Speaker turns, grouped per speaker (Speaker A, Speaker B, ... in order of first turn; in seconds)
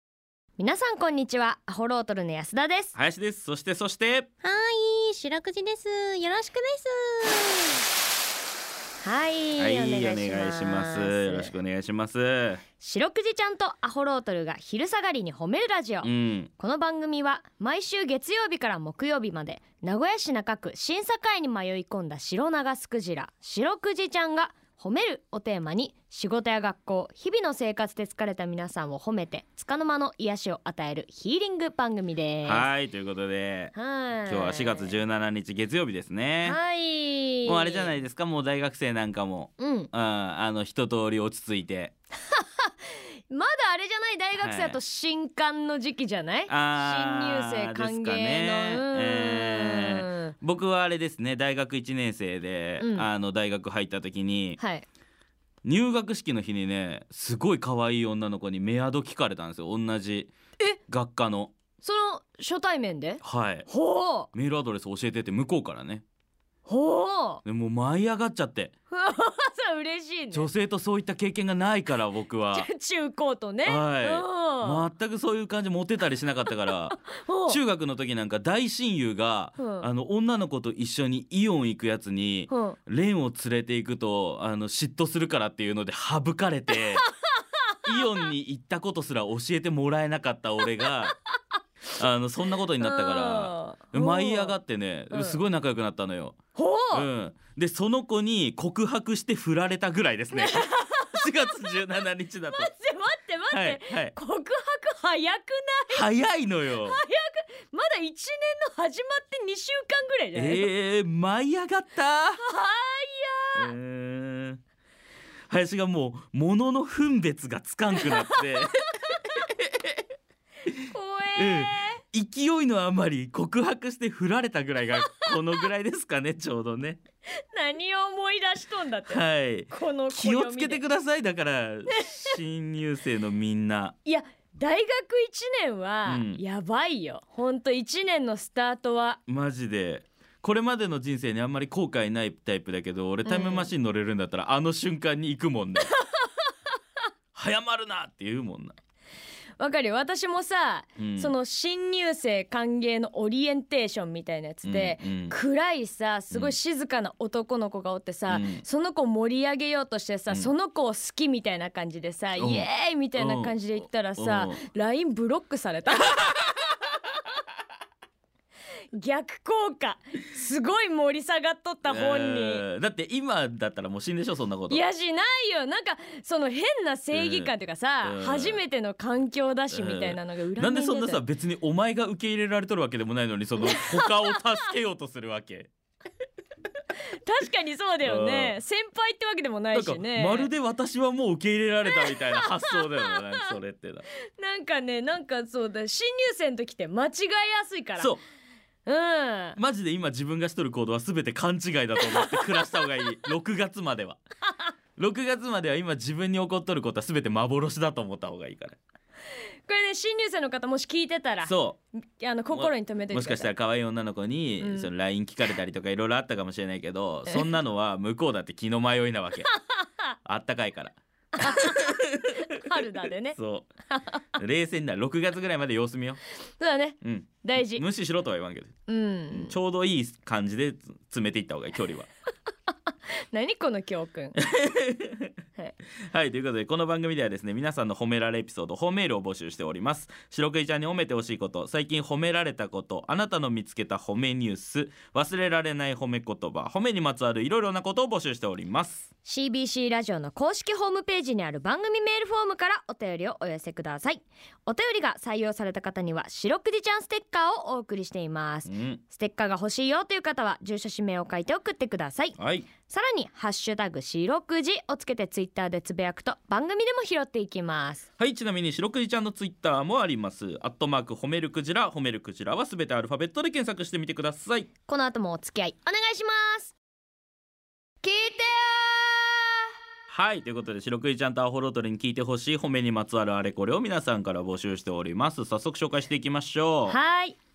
Speaker A: 0.6-2.9, 9.0-11.5, 12.8-32.7, 33.7-34.9, 36.4-37.9, 39.6-39.9, 42.3-50.3, 52.8-53.1, 54.6-54.8, 61.8-64.3, 66.7-67.4, 68.9-70.5, 72.5-74.9, 77.0-77.6, 79.6-79.9, 82.5-82.8, 86.7-87.7, 92.8-94.5, 95.1-95.4, 96.5-97.1, 100.3-101.6, 102.4-106.2, 106.7-110.7, 112.4-113.7, 118.0-118.4, 120.9-122.0, 127.5-130.8, 131.9-132.4, 134.0-139.2, 143.2-143.7, 145.9-146.5, 149.6-166.6, 168.9-172.6, 174.7-181.2, 183.6-184.4, 187.2-190.5, 191.9-193.6, 194.4-198.2, 198.8-199.6, 202.0-202.7, 209.7-211.5, 212.2-213.5, 214.6-214.9, 221.3-223.4, 223.9-224.2, 226.6-227.8, 228.9-229.6, 233.3-234.4, 249.2-268.1, 274.9-276.7, 278.0-279.6, 286.9-287.4
Speaker B: 2.9-4.3, 9.6-12.6, 16.0-16.5, 32.4-33.7, 34.2-36.6, 37.4-41.9, 44.4-44.8, 46.5-54.6, 55.6-60.3, 60.9-61.5, 63.2-63.7, 64.3-66.0, 67.4-68.7, 70.3-72.7, 73.6-87.0, 87.8-91.1, 91.9-96.3, 96.9-102.7, 103.5-104.1, 105.9-107.0, 110.3-112.4, 113.5-114.6, 115.5-118.7, 119.3-120.0, 121.3-127.0, 129.1-133.9, 136.1-136.4, 139.3-145.9, 147.3-148.8, 151.0-151.3, 154.6-155.3, 156.3-156.6, 158.3-158.6, 162.4-163.6, 164.2-164.6, 171.8-174.8, 177.1-178.6, 179.7-185.7, 188.0-188.6, 189.7-194.0, 199.6-204.2, 205.0-208.8, 211.4-211.8, 212.5-219.5, 220.2-222.3, 223.4-223.7, 224.4-226.2, 227.0-228.7, 229.3-232.1, 234.3-235.3, 236.1-249.1, 258.7-259.0, 262.4-262.7, 268.2-274.7, 280.1-287.0
Speaker C: 4.4-7.8